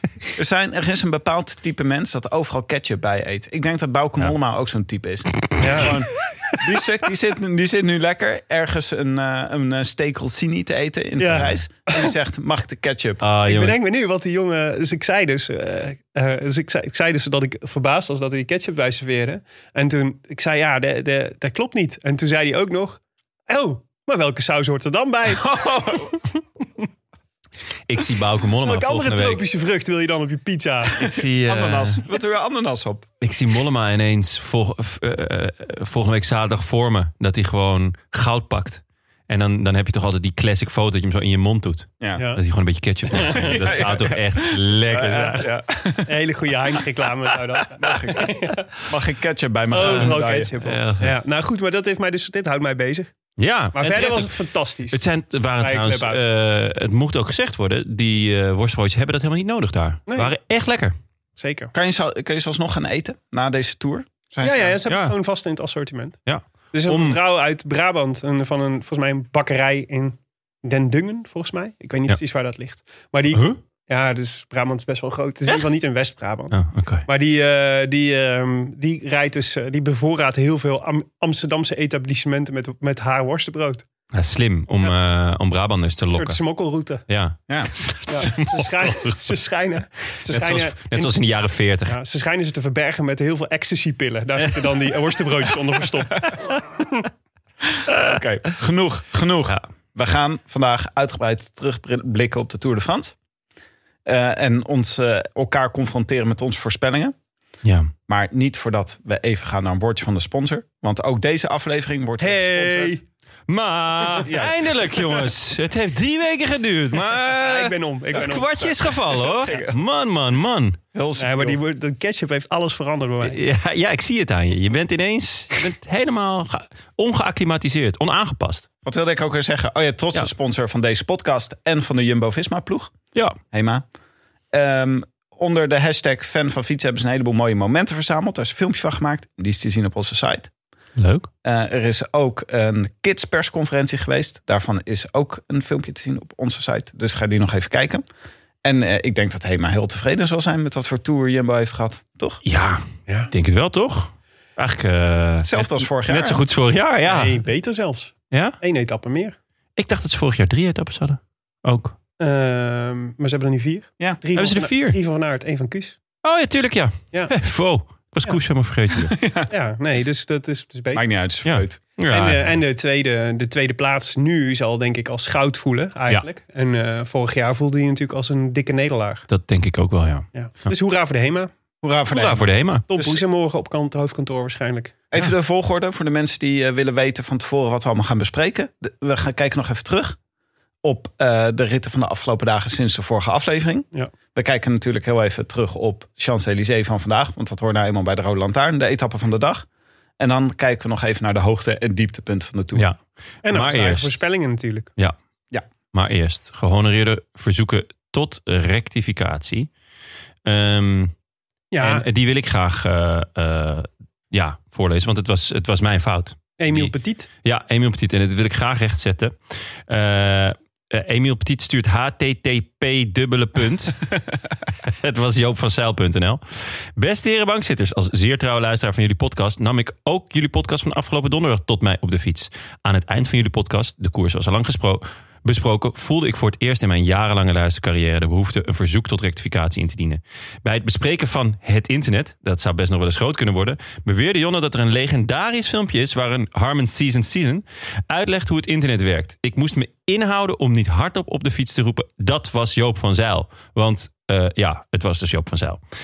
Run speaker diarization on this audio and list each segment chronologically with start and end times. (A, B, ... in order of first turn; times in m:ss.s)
0:00.4-0:13.2 A
0:05.6-0:05.9 B
0:11.2-0:12.1 B
0:13.2-0:13.8 C
0:13.4-0:25.5 B
0:25.3-0:26.2 A
0:27.9-0:29.4 C
0:28.6-0:31.0 B
0:31.0-0:32.0 C
0:31.0-0:33.1 A
0:33.2-0:45.5 C
0:43.1-0:43.8 B
0:43.4-0:46.1 A
0:46.0-0:48.7 B
0:47.8-0:50.5 A
0:49.7-0:53.1 B
0:49.8-0:51.2 C
0:53.4-0:54.4 C
0:53.7-0:55.0 B
0:54.9-1:00.9 C
0:55.6-0:56.2 B
1:01.4-1:01.7 B
1:01.7-1:04.8 A
1:04.4-1:06.2 B
1:04.9-1:05.1 C
1:06.2-1:07.2 C
1:06.7-1:23.8 B
1:13.3-1:13.6 C
1:16.5-1:17.0 C
1:24.1-1:26.4 C
1:26.1-1:27.0 B
1:27.1-1:29.3 C
1:27.5-1:28.3 A
1:28.1-1:31.2 B
1:30.3-1:32.0 C
1:31.9-1:37.0 B
1:34.4-1:35.3 C
1:37.8-1:43.2 A
1:44.0-1:47.1 A
1:47.6-1:47.9 C
1:48.1-1:53.0 A
1:52.2-1:53.0 B
1:53.5-2:00.8 C
1:54.2-1:55.2 A
1:57.3-1:58.9 B
1:59.2-1:59.8 A
2:00.9-2:01.6 A
2:01.2-2:03.4 B
2:03.2-2:08.6 C
2:08.8-2:12.9 A
2:13.5-2:13.8 A
2:14.5-2:20.5 A
2:21.0-2:21.3 C
2:21.4-2:28.0 A
2:28.6-2:32.4 A
2:32.4-2:37.4 C
2:35.4-2:36.4 A
2:37.0-2:39.4 B
2:38.3-2:38.6 C
2:39.8-2:41.9 C
2:42.2-2:46.0 B
2:44.3-2:45.0 C
2:46.2-2:49.2 C
2:49.1-2:49.5 A
2:49.5-2:51.0 B
2:50.9-2:51.8 A
2:51.4-2:52.5 C
2:52.1-2:59.2 B
2:59.3-3:00.7 C
3:00.3-3:01.5 B
3:01.8-3:03.2 A
3:02.1-3:02.8 C
3:02.9-3:04.9 B
3:05.1-3:10.2 A
3:10.8-3:19.6 A
3:20.2-3:22.9 A
3:22.7-3:24.2 C
3:23.4-3:24.9 B
3:25.9-3:29.7 C
3:30.4-3:31.1 C
3:31.7-3:32.0 B
3:31.8-3:44.1 C
3:36.6-3:37.3 B
3:44.8-3:46.4 C
3:47.0-4:15.8 C